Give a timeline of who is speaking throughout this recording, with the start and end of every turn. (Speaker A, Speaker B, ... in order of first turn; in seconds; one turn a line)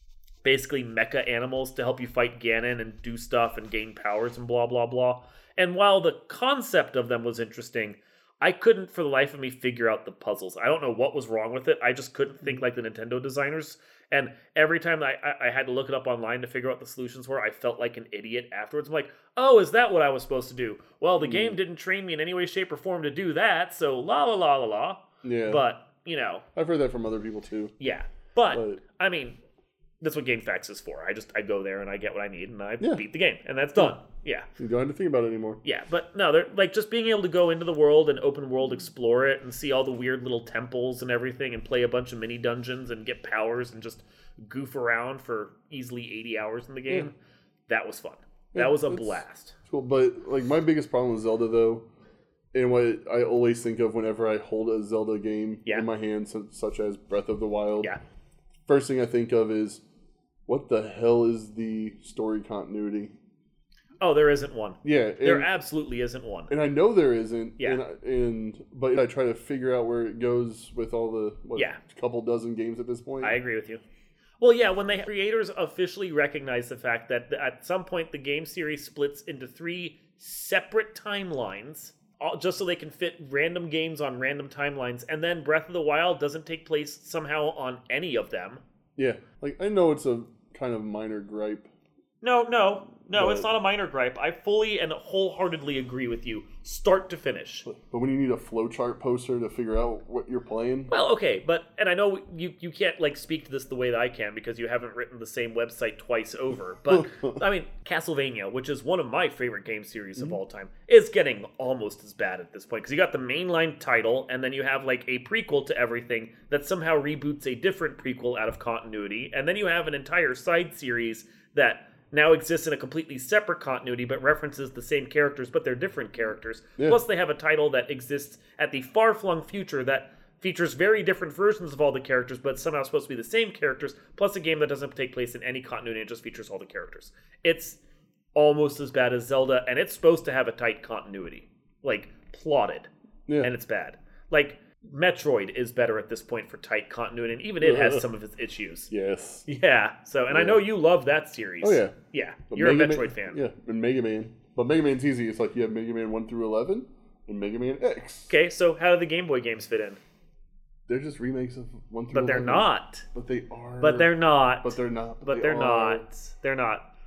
Speaker A: 0.4-26.4
Speaker B: 21.2-21.6
Speaker B: 25.2-25.6
Speaker B: 26.6-27.7
Speaker A: 27.8-29.4
Speaker B: 28.5-28.8
Speaker A: 30.0-34.5
Speaker B: 34.6-35.6
Speaker A: 35.6-47.1
Speaker A: 47.7-49.5
Speaker B: 48.5-51.9
Speaker B: 52.5-57.9
Speaker B: 58.7-59.8
Speaker B: 60.5-63.2
Speaker A: 64.0-66.5
Speaker B: 64.8-65.5
Speaker B: 66.5-73.4
Speaker A: 71.5-71.8
Speaker A: 73.2-73.8
Speaker A: 74.4-88.6
Speaker B: 89.0-91.7
Speaker A: 92.2-97.7
Speaker B: 93.1-93.5
Speaker B: 97.7-101.0
Speaker A: 100.9-137.8
Speaker B: 106.9-107.4
Speaker A: 138.3-142.9
Speaker A: 143.4-148.9
Speaker B: 147.6-148.1
Speaker B: 148.9-149.5
Speaker A: 149.5-153.4
Speaker B: 150.3-150.6
Speaker B: 151.6-151.9
Speaker B: 152.5-158.3
Speaker A: 158.3-160.0
Speaker B: 160.9-166.1
Speaker A: 162.1-163.1
Speaker A: 163.8-166.9